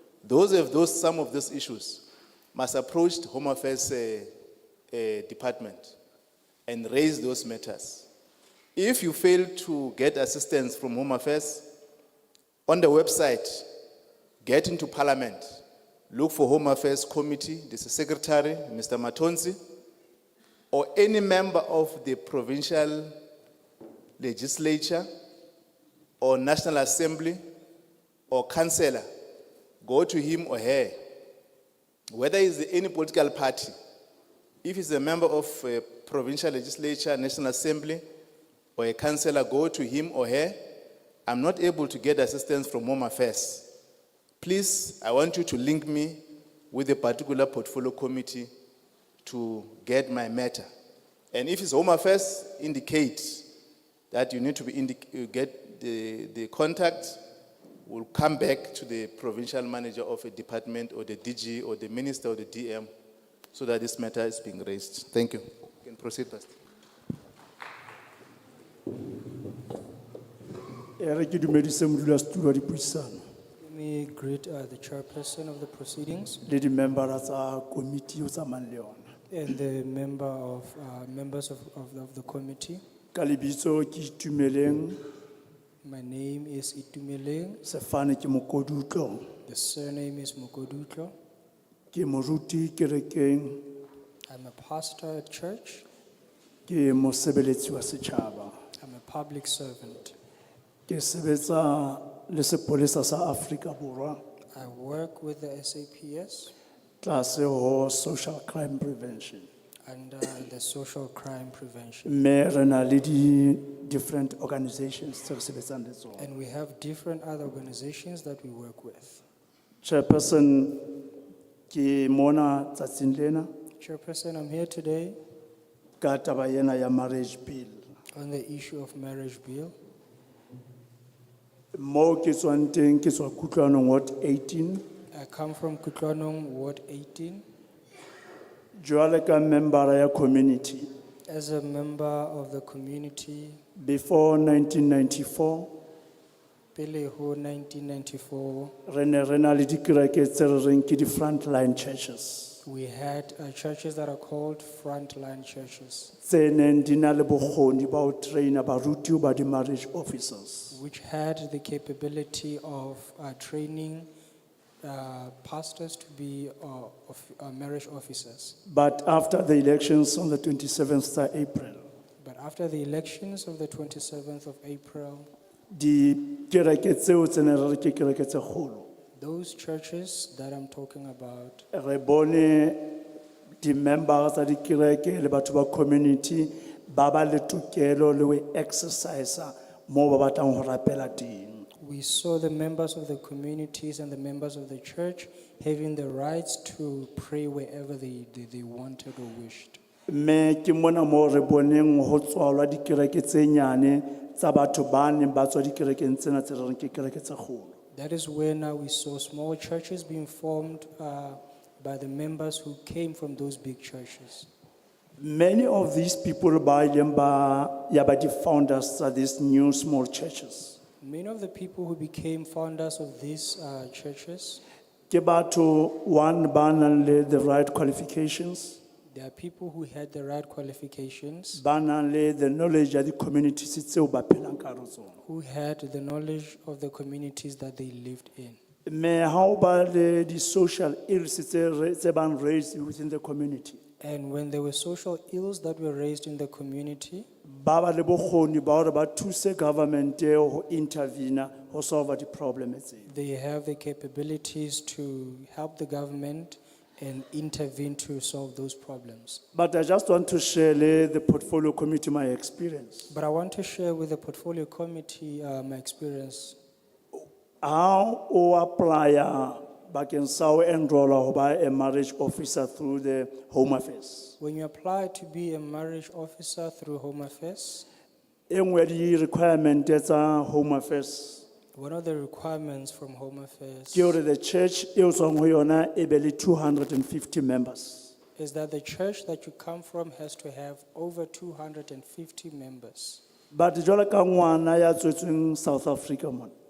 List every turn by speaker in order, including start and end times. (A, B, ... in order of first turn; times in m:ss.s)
0:00.2-0:04.3 A
0:04.9-0:06.0 A
0:06.7-0:08.1 A
0:08.8-0:11.7 A
0:12.7-0:13.7 A
0:14.4-0:19.6 A
0:20.7-0:23.2 A
0:24.2-0:25.1 A
0:26.2-0:27.4 A
0:28.3-0:29.1 A
0:29.8-0:31.0 A
0:32.1-0:33.8 A
0:34.6-0:38.0 A
0:38.8-0:40.6 A
0:41.3-0:43.7 A
0:44.4-0:48.5 A
0:49.2-0:50.7 A
0:51.3-0:53.5 A
0:54.1-0:57.2 A
0:57.9-1:02.9 A
1:03.5-1:06.5 A
1:11.0-1:13.2 B
1:13.6-1:16.4 C
1:16.4-1:19.0 B
1:19.3-1:22.8 C
1:23.1-1:25.0 B
1:25.8-1:27.6 C
1:27.6-1:29.2 B
1:29.5-1:31.1 C
1:31.9-1:33.6 B
1:34.3-1:35.8 C
1:36.7-1:38.5 B
1:38.8-1:40.2 C
1:40.9-1:44.2 B
1:44.6-1:46.5 C
1:47.0-1:49.5 B
1:49.8-1:52.1 C
1:52.0-1:56.2 B
1:56.2-1:59.2 C
1:59.8-2:01.1 B
2:01.7-2:03.5 B
2:03.8-2:05.2 C
2:06.0-2:07.8 B
2:08.1-2:09.7 C
2:11.7-2:14.8 B
2:15.1-2:17.4 C
2:18.8-2:20.9 B
2:21.3-2:23.6 C
2:23.8-2:25.7 B
2:26.8-2:28.7 C
2:28.9-2:32.6 B
2:32.6-2:36.1 C
2:36.2-2:40.8 B
2:40.7-2:44.1 C
2:44.8-2:48.6 C
2:48.7-2:51.8 B
2:52.2-2:55.3 C
2:55.7-2:58.9 B
2:59.2-3:01.6 C
3:01.7-3:03.0 B
3:03.6-3:11.7 B
3:11.8-3:19.8 C
3:20.1-3:27.8 B
3:27.9-3:34.5 C
3:35.2-3:40.8 B
3:41.0-3:44.6 C
3:45.1-3:48.8 B
3:49.1-3:51.6 C
3:51.6-3:55.2 B
3:55.2-3:58.6 C
3:58.9-4:03.8 B
4:04.0-4:07.3 C
4:07.5-4:13.1 B
4:13.1-4:19.4 C
4:19.5-4:23.1 B
4:23.1-4:26.6 C
4:27.6-4:34.4 B
4:34.4-4:37.9 C
4:38.5-4:41.5 B
4:41.8-4:44.2 C
4:43.9-4:48.1 B
4:48.4-4:53.2 C
4:53.5-4:56.5 B